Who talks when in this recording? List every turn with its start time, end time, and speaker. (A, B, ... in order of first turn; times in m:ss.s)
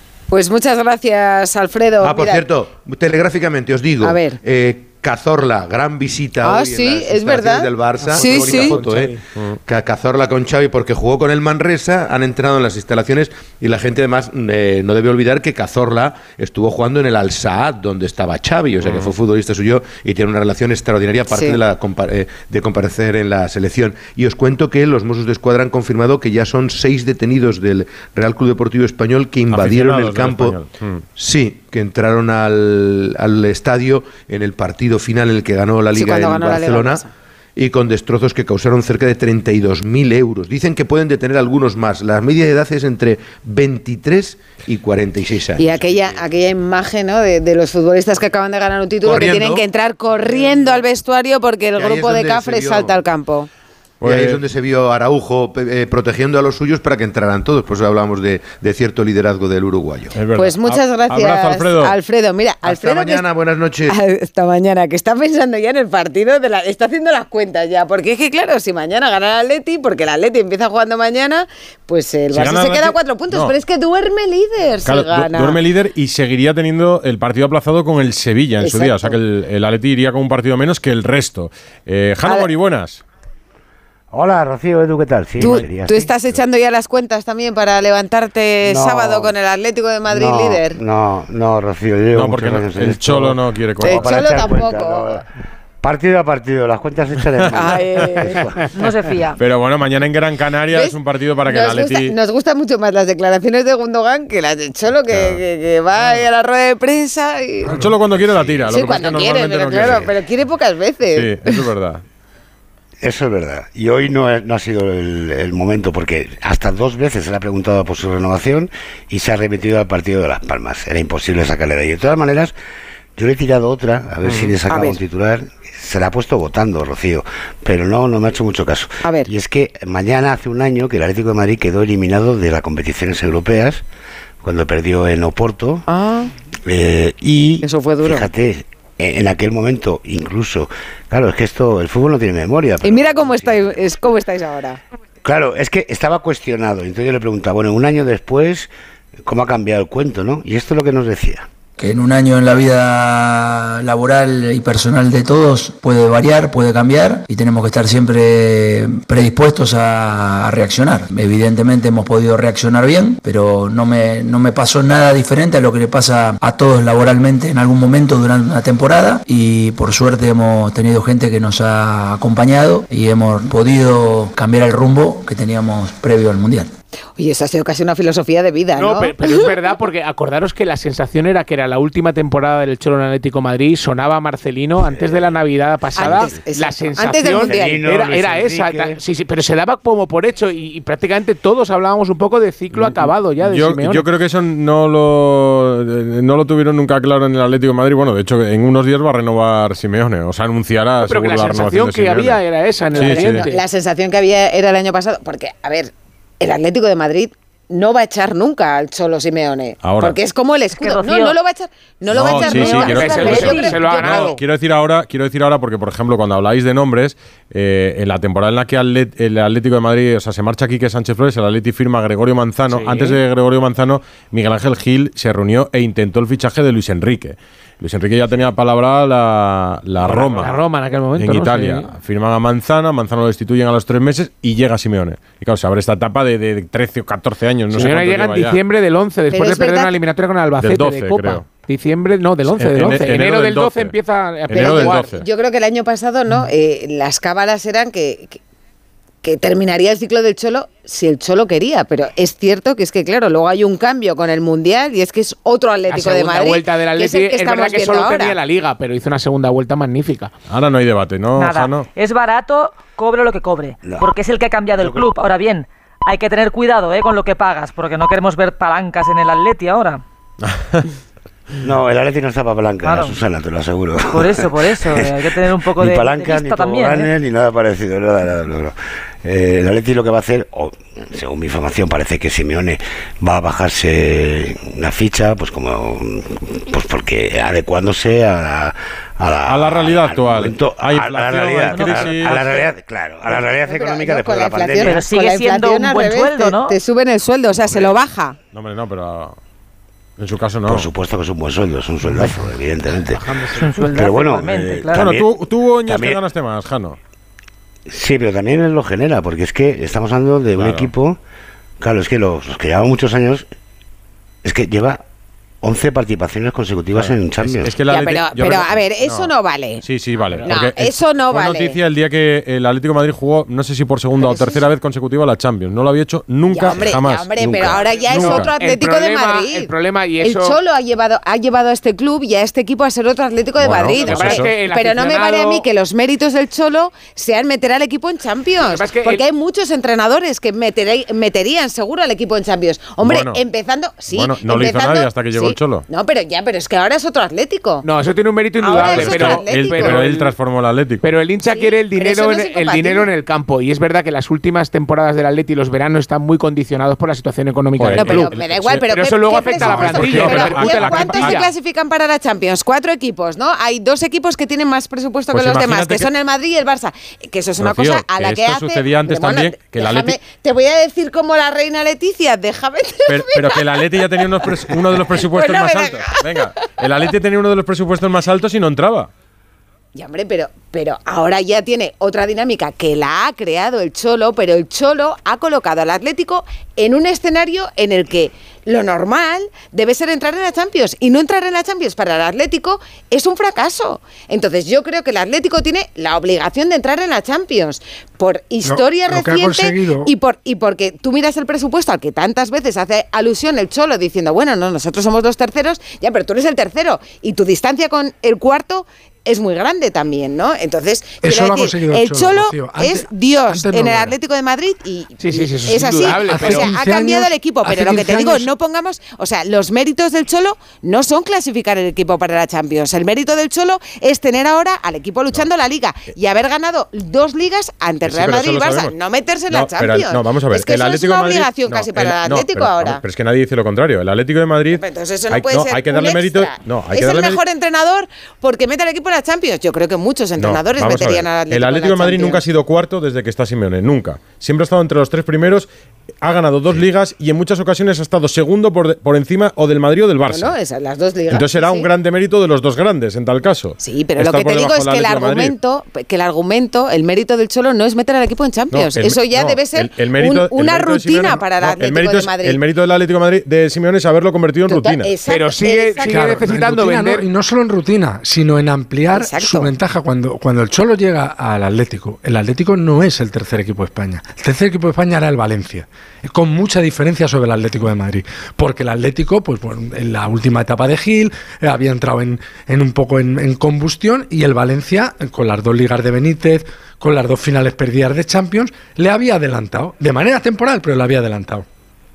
0:00.3-0:02.5 A
0:02.0-0:09.2 B
0:04.0-0:04.4 A
0:06.4-0:08.8 A
0:08.0-0:09.2 C
0:09.7-0:30.6 B
0:18.8-0:19.1 D
0:21.3-0:21.6 A
0:29.5-0:31.0 D
0:31.2-0:37.0 B
0:36.0-0:37.1 A
0:37.6-0:45.8 B
0:45.6-0:53.5 A
0:45.8-0:46.1 E
0:49.0-0:49.7 B
0:51.8-0:53.0 B
0:54.0-0:54.4 D
0:54.0-1:00.2 B
1:00.2-1:02.0 D
1:00.4-1:03.3 A
1:02.6-1:04.0 B
1:03.9-1:15.6 A
1:12.3-1:13.5 D
1:14.8-1:23.0 D
1:18.6-1:19.2 A
1:22.2-1:22.5 A
1:24.1-1:26.1 E
1:25.4-1:30.8 A
1:28.6-1:29.4 E
1:30.1-1:35.2 E
1:32.1-1:34.4 D
1:33.8-1:35.2 A
1:35.8-1:38.7 E
1:37.5-1:38.5 A
1:38.8-1:39.4 F
1:39.4-1:42.2 D
1:40.7-1:47.9 A
1:45.1-1:45.4 D
1:47.7-1:50.1 D
1:48.6-1:51.6 A
1:51.1-1:52.0 D
1:53.0-2:02.6 E
2:03.2-2:13.8 E
2:04.3-2:04.5 D
2:04.7-2:05.0 A
2:09.0-2:09.3 A
2:14.4-2:15.8 E
2:15.9-2:16.3 A
2:16.7-2:23.8 E
2:17.6-2:18.3 A
2:22.8-2:24.8 A
2:25.2-2:28.7 E
2:29.2-2:31.5 E
2:31.8-2:56.7 G
2:57.2-2:59.5 A
2:58.8-3:14.1 C
3:06.0-3:07.9 A
3:07.5-3:09.0 E
3:12.7-3:22.4 D
3:21.0-3:23.6 C
3:23.0-3:23.5 D
3:23.0-3:34.3 A
3:29.8-3:30.2 D
3:30.8-3:31.4 F
3:32.1-3:50.5 D
3:32.4-3:34.0 F
3:32.5-3:34.4 C
3:42.7-3:43.2 C
3:50.0-3:51.9 C
3:51.2-3:58.6 D
3:57.7-4:05.2 C
3:59.3-3:59.9 A
4:00.6-4:01.4 D
4:02.5-4:04.0 D
4:04.5-4:05.2 D
4:04.6-4:08.4 A
4:09.2-4:18.4 A
4:15.9-4:20.3 C
4:20.5-4:21.8 D
4:21.4-4:30.0 F
4:30.5-4:30.8 D
4:31.6-4:55.0 E
4:32.8-4:33.2 F
4:34.1-4:37.1 F
4:49.5-4:52.5 D
4:51.7-4:52.7 F
4:53.6-4:58.4 A
4:54.8-4:56.8 F
4:58.5-4:59.4 D
5:00.2-5:00.9 D
5:00.7-5:05.3 E
5:03.6-5:05.1 F
5:04.9-5:07.0 D
5:05.9-5:06.2 E
5:07.9-5:11.2 E
5:10.6-5:10.9 D
5:11.8-5:13.5 E
5:14.4-5:15.0 E
5:15.6-5:17.8 E
5:17.0-5:19.3 D
5:17.9-5:19.8 A
5:19.8-5:28.5 D
5:20.4-5:21.8 A
5:24.2-5:24.6 A
5:26.5-5:47.8 A
5:27.7-5:30.6 C
5:33.6-5:34.5 D
5:33.9-5:35.7 C
5:38.6-5:39.2 C
5:43.0-5:43.4 D
5:44.1-5:45.8 D
5:47.8-5:50.3 C
5:48.6-5:50.0 A
5:48.8-5:51.0 D
5:51.0-6:01.5 C
5:51.4-5:53.1 A
5:57.8-6:01.5 D
5:57.8-6:16.5 A
6:05.3-6:06.1 D
6:07.6-6:10.2 D
6:13.1-6:19.1 D
6:20.0-7:13.0 A
6:38.6-6:40.1 H
6:51.2-6:54.1 H
6:55.2-6:56.7 C
6:56.2-6:58.5 H
7:08.0-7:08.9 D
7:09.5-7:17.4 D
7:14.7-7:22.4 A
7:20.4-7:25.7 D
7:26.2-7:30.5 D
7:30.3-7:31.9 A
7:31.3-7:35.6 D
7:33.8-7:42.6 A
7:38.7-7:45.1 D
7:44.7-7:46.5 A
7:45.3-7:47.2 C
7:46.1-8:11.6 H
7:49.1-7:49.7 A